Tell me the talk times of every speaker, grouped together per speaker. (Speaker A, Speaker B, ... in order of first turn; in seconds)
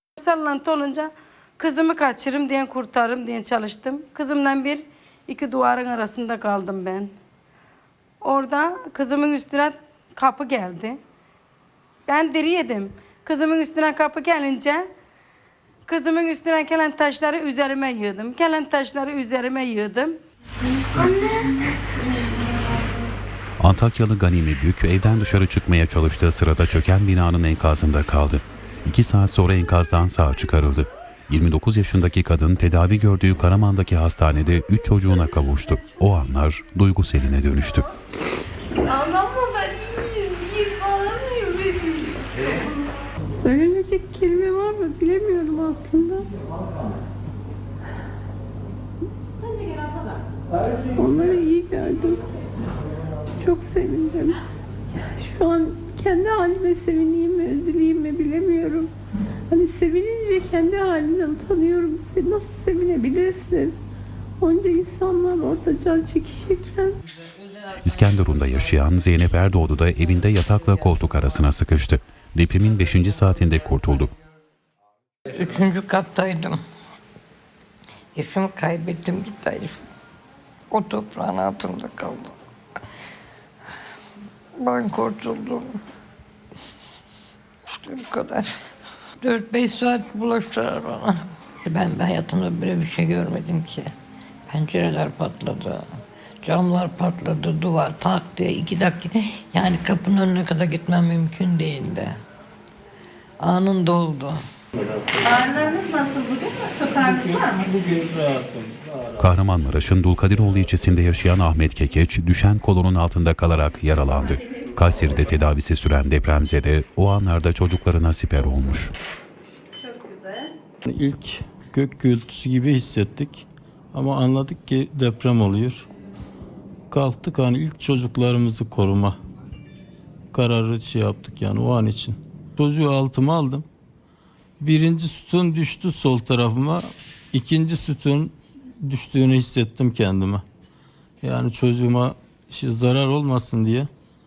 Speaker A: 0.2-7.1, 8.2-11.0, 12.1-14.8, 15.9-20.2
Speaker B: 23.6-37.9, 67.8-74.1, 109.2-118.9
Speaker C: 38.9-42.1, 105.2-107.7, 119.8-120.5
Speaker D: 43.3-46.3, 51.0-52.2, 53.4-54.4, 54.9-58.9, 59.5-63.8, 64.4-67.0
Speaker E: 75.3-76.6, 78.1-79.8, 80.7-82.3, 84.6-85.8, 87.7-88.5, 89.2-93.9, 94.5-95.8, 96.4-102.2, 103.4-104.4
Speaker F: 104.7-105.8, 106.9-109.2, 120.8-125.8, 126.9-129.2, 130.3-133.7, 134.6-140.4, 141.2-143.9